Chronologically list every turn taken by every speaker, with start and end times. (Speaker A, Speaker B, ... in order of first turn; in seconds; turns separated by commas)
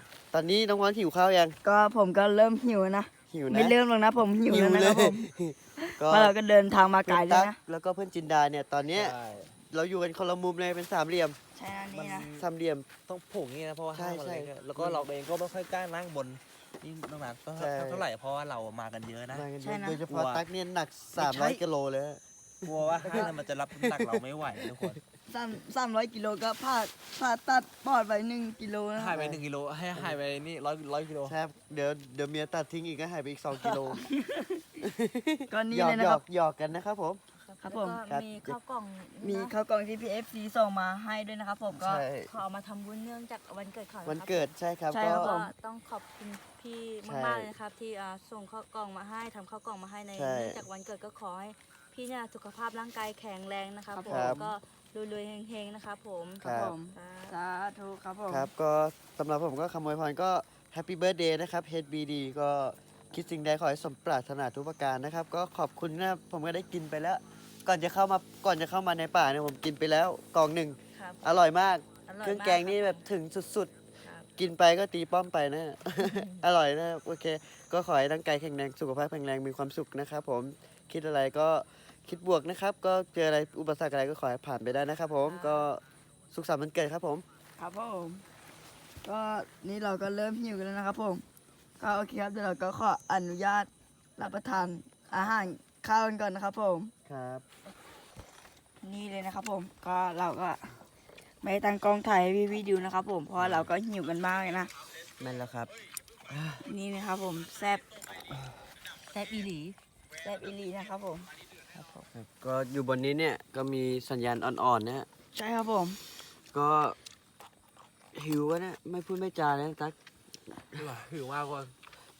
Speaker A: 0.3-1.6, Speaker B: 1.6-5.3, Speaker A: 3.3-3.8, Speaker A: 4.5-6.3, Speaker B: 5.8-7.6, Speaker A: 7.0-11.4, Speaker C: 8.9-9.5, Speaker B: 11.5-12.3, Speaker C: 11.9-12.5, Speaker A: 12.3-12.8, Speaker C: 13.1-20.4, Speaker A: 13.9-15.1, Speaker A: 17.6-18.0, Speaker A: 19.3-25.0, Speaker B: 19.6-20.0, Speaker C: 21.1-21.6, Speaker C: 22.6-25.0, Speaker B: 25.3-29.2, Speaker C: 28.9-31.4, Speaker A: 29.1-29.4, Speaker A: 31.2-34.0, Speaker C: 33.5-33.9, Speaker B: 34.1-34.7, Speaker A: 34.8-37.2, Speaker B: 35.5-36.2, Speaker D: 37.4-39.5, Speaker B: 37.6-38.0, Speaker A: 38.1-38.6, Speaker B: 39.2-42.0, Speaker A: 41.7-42.3, Speaker D: 42.3-57.3, Speaker A: 44.0-45.3, Speaker B: 44.9-45.5, Speaker A: 47.0-47.5, Speaker A: 50.1-50.6, Speaker B: 53.9-54.5, Speaker A: 54.1-54.5, Speaker A: 56.4-56.8, Speaker B: 56.4-58.5, Speaker A: 58.3-73.7, Speaker D: 70.9-71.4, Speaker D: 72.1-73.0, Speaker D: 74.0-74.3, Speaker A: 74.4-87.2, Speaker D: 76.0-76.4, Speaker D: 85.2-85.7, Speaker B: 87.6-88.2, Speaker B: 89.0-91.2, Speaker B: 91.8-96.9, Speaker A: 97.0-97.4, Speaker B: 98.8-100.7, Speaker B: 101.4-104.7, Speaker C: 103.4-103.7, Speaker A: 105.2-105.7, Speaker A: 106.3-106.6, Speaker B: 106.6-107.8, Speaker D: 109.1-109.8, Speaker B: 110.2-111.3, Speaker A: 112.1-115.1, Speaker B: 115.3-116.0, Speaker A: 116.5-117.0, Speaker A: 118.1-120.0, Speaker A: 120.5-120.8, Speaker C: 120.7-121.7